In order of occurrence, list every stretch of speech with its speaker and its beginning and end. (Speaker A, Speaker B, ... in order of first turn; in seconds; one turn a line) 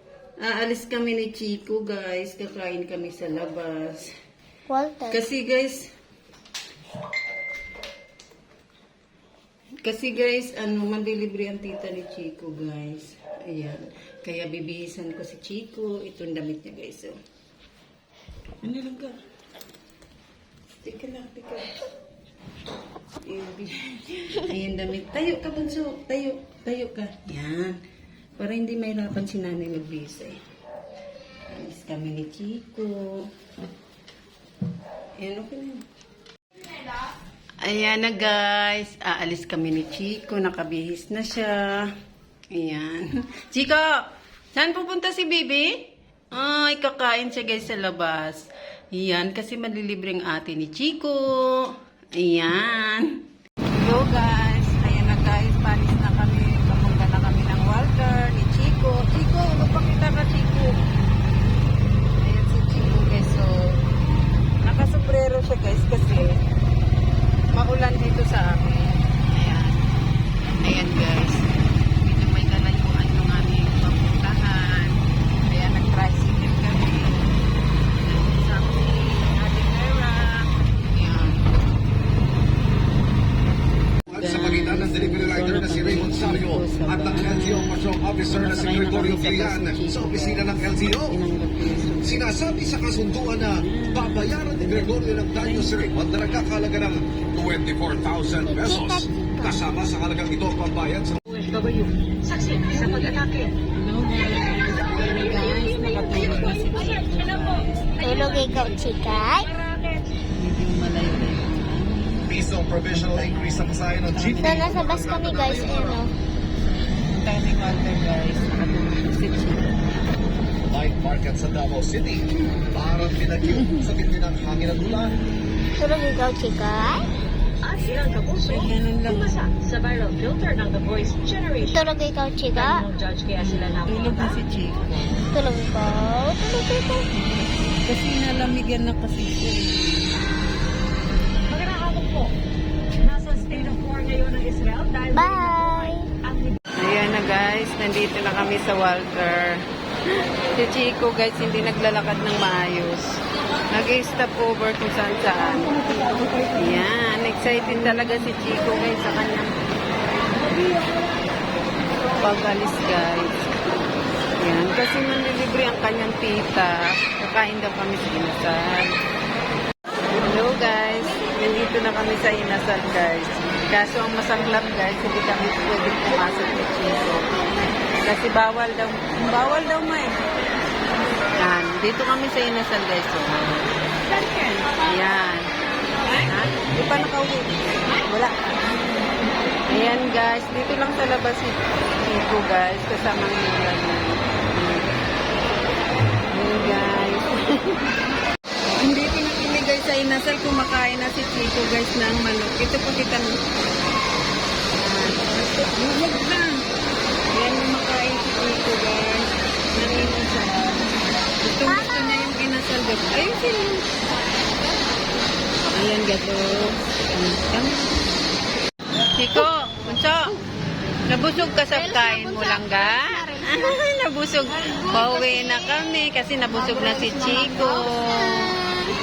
Speaker A: 0.4-4.1
Speaker B: 4.7-5.2
Speaker A: 5.1-5.9
Speaker A: 9.8-17.2
Speaker A: 18.6-19.2
Speaker A: 20.8-21.8
Speaker A: 23.2-27.8
Speaker A: 28.4-30.4
Speaker A: 31.5-33.3
Speaker A: 35.2-35.9
Speaker A: 37.6-41.9
Speaker A: 42.5-60.8
Speaker A: 62.2-63.8
Speaker A: 64.6-66.4
Speaker A: 67.5-69.8
Speaker A: 70.6-77.3
Speaker A: 78.0-81.5
Speaker C: 84.1-91.2
Speaker A: 84.1-92.4
Speaker C: 92.0-101.2
Speaker A: 93.2-95.9
Speaker B: 98.4-99.6
Speaker D: 101.3-103.6
Speaker A: 102.7-108.0
Speaker D: 104.6-110.1
Speaker B: 108.0-109.5
Speaker A: 110.3-115.9
Speaker C: 112.3-116.0
Speaker B: 114.4-116.1
Speaker A: 117.1-119.9
Speaker C: 120.7-125.2
Speaker A: 123.5-123.9
Speaker B: 125.8-127.1
Speaker D: 127.6-134.4
Speaker A: 128.5-129.4
Speaker B: 131.7-132.9
Speaker A: 133.4-135.2
Speaker B: 135.3-137.1
Speaker A: 137.2-140.1
Speaker D: 141.5-142.4
Speaker D: 143.0-146.6
Speaker B: 145.1-146.1
Speaker A: 146.7-159.6
Speaker D: 160.5-161.1
Speaker A: 162.2-163.5
Speaker A: 164.4-169.0
Speaker A: 170.1-177.4
Speaker A: 178.0-180.2
Speaker A: 181.4-183.8
Speaker D: 184.1-184.8
Speaker A: 184.7-185.5
Speaker A: 186.1-188.7
Speaker A: 189.7-195.0
Speaker A: 196.3-198.0
Speaker A: 198.7-203.4
Speaker A: 204.7-206.6
Speaker A: 207.3-214.0
Speaker A: 215.7-218.1
Speaker A: 219.1-220.4
Speaker A: 221.1-228.7
Speaker B: 222.1-222.5
Speaker B: 225.2-225.5